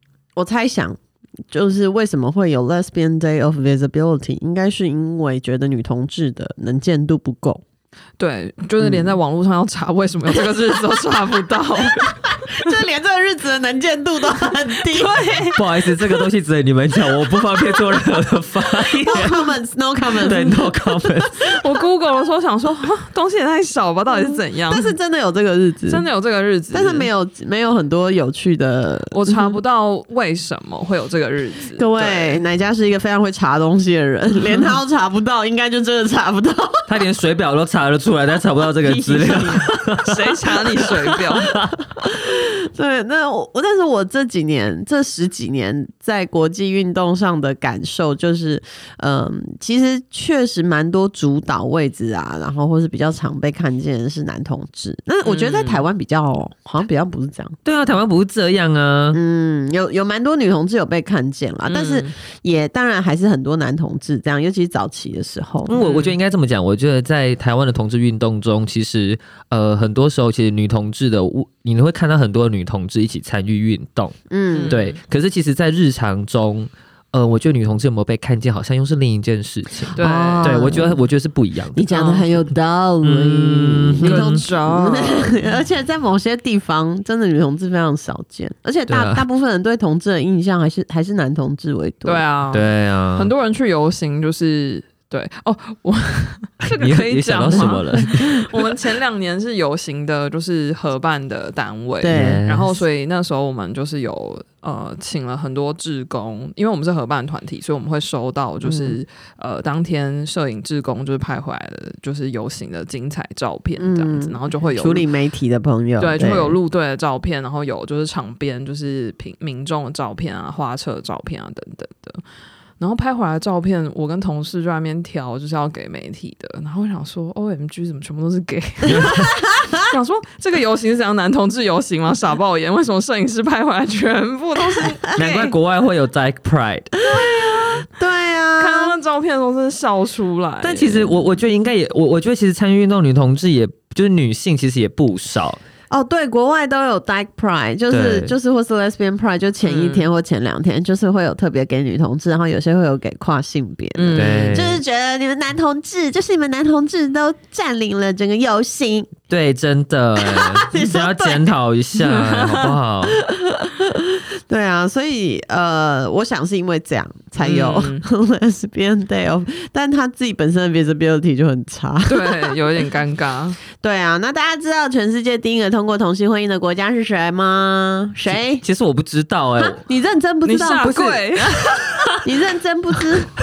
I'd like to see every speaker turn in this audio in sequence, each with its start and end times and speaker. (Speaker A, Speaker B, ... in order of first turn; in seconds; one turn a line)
Speaker A: 0.3-1.0
Speaker A: 1.5-7.6
Speaker B: 8.2-12.7
Speaker A: 8.8-9.1
Speaker A: 12.0-15.3
Speaker B: 14.9-15.8
Speaker C: 15.6-19.4
Speaker A: 19.0-21.2
Speaker C: 20.2-21.5
Speaker B: 21.4-24.9
Speaker A: 24.2-26.0
Speaker B: 25.9-27.1
Speaker A: 26.7-29.6
Speaker B: 29.1-32.4
Speaker A: 31.8-36.9
Speaker C: 36.9-40.1
Speaker A: 38.8-39.7
Speaker B: 40.0-41.5
Speaker C: 41.4-41.7
Speaker A: 41.9-57.6
Speaker B: 55.2-55.9
Speaker C: 57.6-59.2
Speaker A: 59.1-65.7
Speaker B: 61.6-62.1
Speaker C: 65.7-74.2
Speaker B: 65.7-66.2
Speaker A: 74.3-74.8
Speaker B: 74.5-75.0
Speaker C: 74.7-81.8
Speaker B: 80.0-80.7
Speaker A: 80.0-81.0
Speaker A: 81.7-92.2
Speaker B: 81.9-82.3
Speaker C: 83.0-84.4
Speaker B: 84.0-85.4
Speaker C: 88.9-89.2
Speaker B: 92.0-115.0
Speaker C: 92.5-93.3
Speaker C: 96.6-98.5
Speaker A: 102.0-102.4
Speaker C: 102.1-102.8
Speaker A: 108.6-109.0
Speaker A: 113.8-116.6
Speaker B: 116.0-122.2
Speaker B: 122.8-129.2
Speaker C: 128.9-129.3
Speaker A: 129.0-129.8
Speaker B: 129.8-135.5
Speaker C: 135.1-136.9
Speaker A: 137.0-138.9
Speaker B: 138.6-141.2
Speaker C: 140.6-145.6
Speaker A: 145.9-159.1
Speaker C: 147.9-148.3
Speaker B: 149.6-150.1
Speaker B: 153.9-154.7
Speaker C: 154.1-154.8
Speaker C: 159.3-163.2
Speaker A: 160.2-161.5
Speaker B: 162.0-162.7
Speaker A: 163.1-172.5
Speaker B: 167.4-168.1
Speaker B: 172.1-173.6
Speaker A: 173.7-178.6
Speaker C: 178.3-179.8
Speaker A: 179.8-181.5
Speaker B: 180.4-182.1
Speaker A: 182.2-183.3